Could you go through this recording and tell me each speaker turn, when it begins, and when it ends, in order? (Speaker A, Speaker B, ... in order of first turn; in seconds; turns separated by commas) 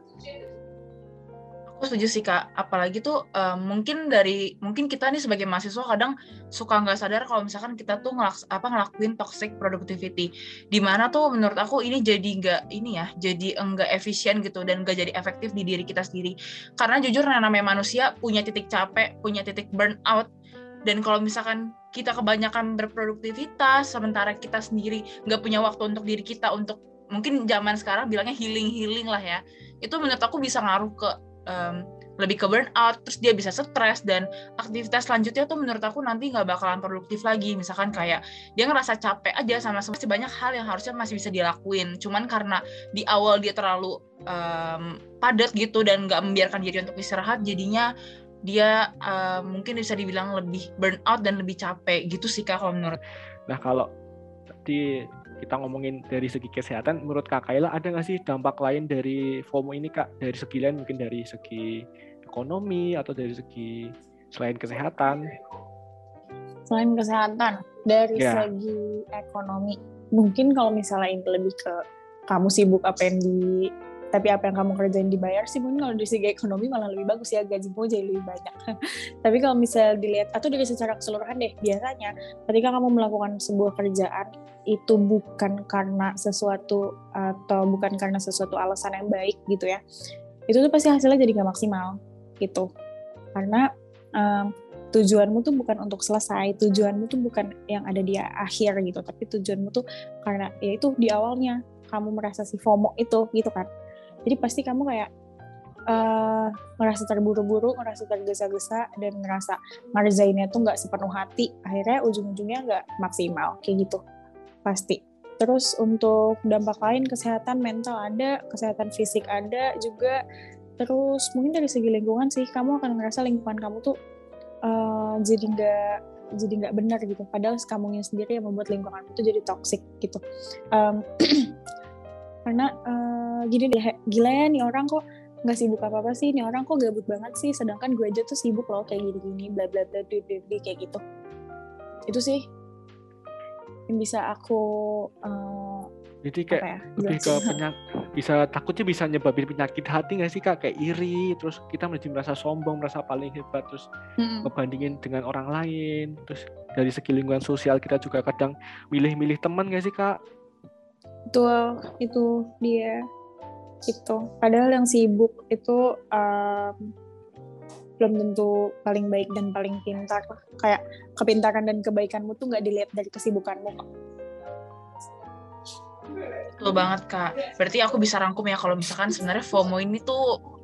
Speaker A: 1.7-20.3, Speaker A: 20.8-47.9, Speaker A: 48.4-53.0, Speaker B: 53.5-53.9, Speaker B: 55.4-65.2, Speaker C: 66.7-78.6, Speaker B: 68.2-68.5, Speaker C: 79.2-89.8, Speaker C: 90.5-92.7, Speaker C: 93.3-93.6, Speaker C: 94.2-103.7, Speaker C: 104.2-105.1, Speaker C: 105.9-114.0, Speaker C: 114.6-120.2, Speaker C: 120.8-123.9, Speaker C: 124.6-131.5, Speaker C: 132.4-141.0, Speaker C: 142.1-142.4, Speaker C: 143.9-145.9, Speaker B: 146.2-153.9, Speaker C: 146.5-147.6, Speaker C: 154.2-154.5, Speaker B: 154.4-160.2, Speaker C: 161.3-163.0, Speaker C: 163.9-166.9, Speaker C: 168.0-173.9, Speaker A: 176.6-180.2